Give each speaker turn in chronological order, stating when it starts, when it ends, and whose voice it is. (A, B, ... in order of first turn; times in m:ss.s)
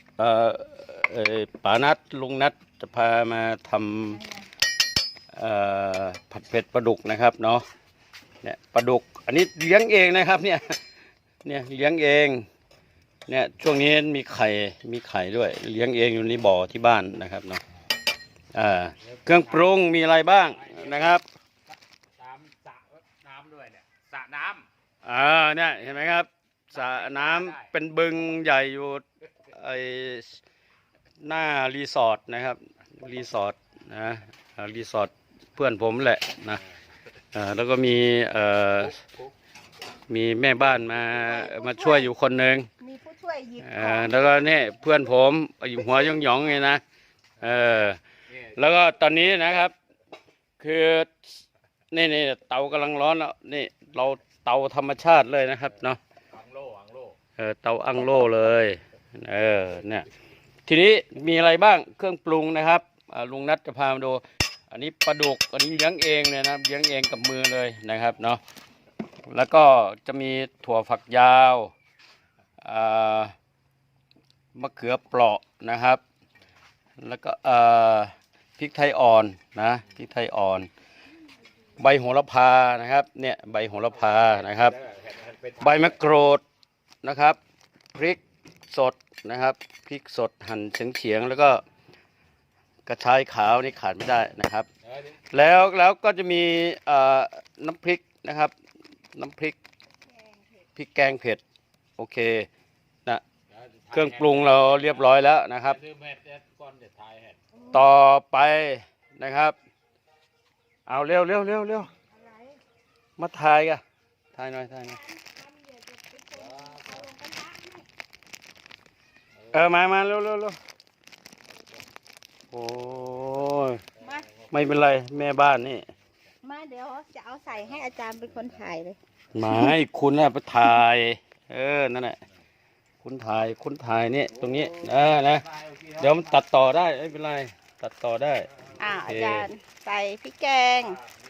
0:00.2-0:04.2 A
0:04.2-0:04.5 B
0:05.3-0:07.6 A
0:08.4-0:10.8 A
0:11.4-0:12.5 A
0:13.3-0:17.6 A
0:18.5-0:21.2 A
0:22.2-0:24.6 C
0:25.0-0:30.4 A
0:31.2-0:36.6 A
0:37.3-0:39.0 A
0:40.1-0:42.7 A
0:41.2-0:42.1 B
0:42.8-0:44.1 B
0:43.6-0:46.8 A
0:47.4-0:49.7 A
0:50.6-0:56.0 A
0:56.4-0:57.1 C
0:57.4-1:00.1 A
1:00.7-1:08.4 A
1:09.3-1:11.7 A
1:12.6-1:13.3 A
1:14.6-1:16.0 A
1:17.0-1:20.7 A
1:21.8-1:24.8 A
1:25.0-1:25.4 C
1:25.6-1:26.4 A
1:27.0-1:27.4 A
1:27.9-1:31.6 A
1:32.9-1:34.7 A
1:35.3-1:38.5 A
1:39.1-1:39.6 A
1:40.1-1:40.7 B
1:40.8-1:41.4 A
1:42.0-1:42.5 A
1:43.9-1:45.8 A
1:45.9-1:47.4 C
1:47.5-1:47.9 B
1:47.7-1:49.6 A
1:50.9-1:51.9 A
1:52.1-1:52.6 B
1:53.2-1:53.8 A
1:54.4-1:55.0 A
1:54.8-1:57.9 B
1:59.5-2:00.6 A
2:02.5-2:03.8 A
2:04.0-2:04.3 B
2:04.5-2:05.9 A
2:06.4-2:09.8 B
2:09.3-2:12.2 A
2:13.0-2:18.5 A
2:18.8-2:21.0 B
2:19.0-2:19.5 A